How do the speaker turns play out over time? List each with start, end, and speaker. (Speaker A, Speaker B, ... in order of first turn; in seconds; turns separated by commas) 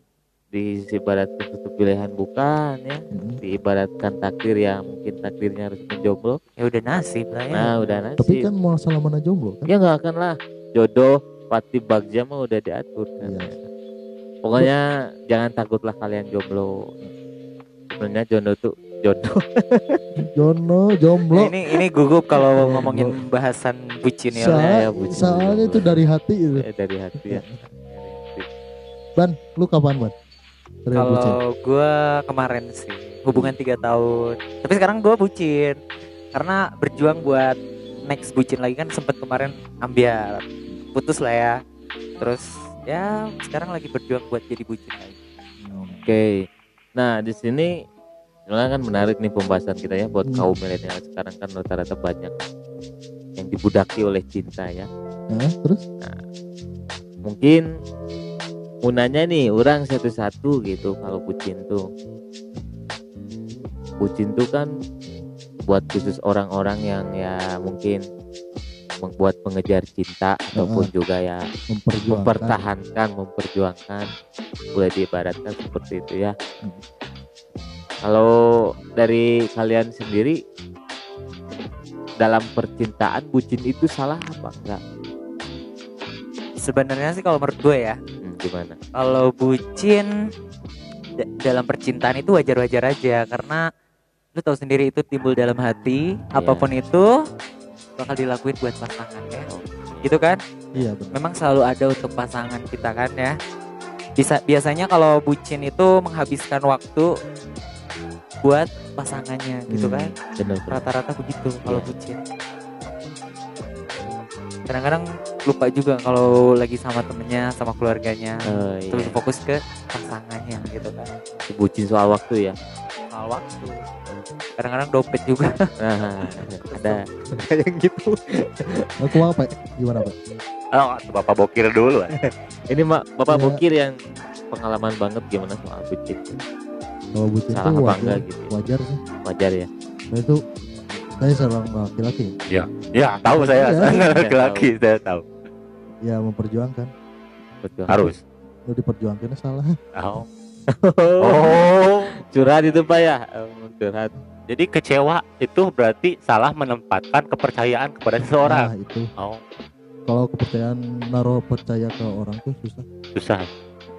Speaker A: 0.5-6.4, Speaker B: 3.1-3.4, Speaker C: 6.6-7.8, Speaker A: 7.5-8.5, Speaker B: 8.2-9.7, Speaker A: 9.7-13.6, Speaker B: 13.2-13.5, Speaker A: 14.4-16.7, Speaker A: 17.9-20.0, Speaker B: 20.3-21.5, Speaker C: 21.3-24.6, Speaker B: 22.4-23.1, Speaker B: 24.3-26.6, Speaker A: 24.6-25.9, Speaker A: 26.6-28.4, Speaker B: 27.2-27.5, Speaker B: 29.1-30.1, Speaker B: 30.8-31.4, Speaker C: 30.9-35.8, Speaker C: 36.3-41.5, Speaker C: 42.2-45.1, Speaker B: 45.6-46.0, Speaker A: 46.0-46.4, Speaker A: 47.0-47.7, Speaker A: 48.5-52.5, Speaker A: 53.4-54.9, Speaker B: 55.3-55.8, Speaker A: 57.3-57.6, Speaker A: 58.8-61.8, Speaker A: 64.0-64.7, Speaker A: 65.7-68.0, Speaker A: 69.0-71.4, Speaker B: 70.5-70.9, Speaker B: 71.7-72.6, Speaker A: 72.1-74.1, Speaker A: 74.7-76.3, Speaker A: 79.0-80.3, Speaker A: 82.2-84.8, Speaker C: 86.6-88.0, Speaker A: 88.2-88.8, Speaker C: 88.9-90.1, Speaker C: 91.2-93.6, Speaker C: 94.3-97.1, Speaker A: 96.4-96.7, Speaker C: 98.0-99.5, Speaker A: 99.5-100.2, Speaker C: 100.0-100.4, Speaker B: 100.7-101.2, Speaker C: 101.1-103.3, Speaker C: 104.2-107.0, Speaker C: 108.4-110.2, Speaker A: 109.7-110.8, Speaker C: 110.7-112.2, Speaker A: 111.6-111.9, Speaker C: 114.7-121.1, Speaker A: 118.5-119.2, Speaker A: 121.5-122.5, Speaker C: 123.1-123.7, Speaker C: 124.6-128.0, Speaker A: 125.8-127.0, Speaker A: 128.0-128.9, Speaker B: 129.0-130.1, Speaker D: 130.7-132.2, Speaker A: 132.7-133.9, Speaker B: 133.3-133.6, Speaker A: 134.5-136.4, Speaker B: 137.1-139.0, Speaker A: 137.5-138.5, Speaker A: 139.2-139.7, Speaker B: 140.1-140.4, Speaker B: 141.2-142.3, Speaker D: 142.5-145.2, Speaker B: 143.3-144.0, Speaker A: 143.8-144.7, Speaker B: 146.0-146.9, Speaker A: 147.6-148.1, Speaker D: 147.9-148.2, Speaker B: 148.7-149.7, Speaker D: 149.9-150.2, Speaker A: 150.7-151.7, Speaker D: 151.2-152.1, Speaker A: 152.3-154.1, Speaker D: 154.5-159.4, Speaker B: 158.4-159.1, Speaker B: 160.1-162.8, Speaker D: 163.1-163.5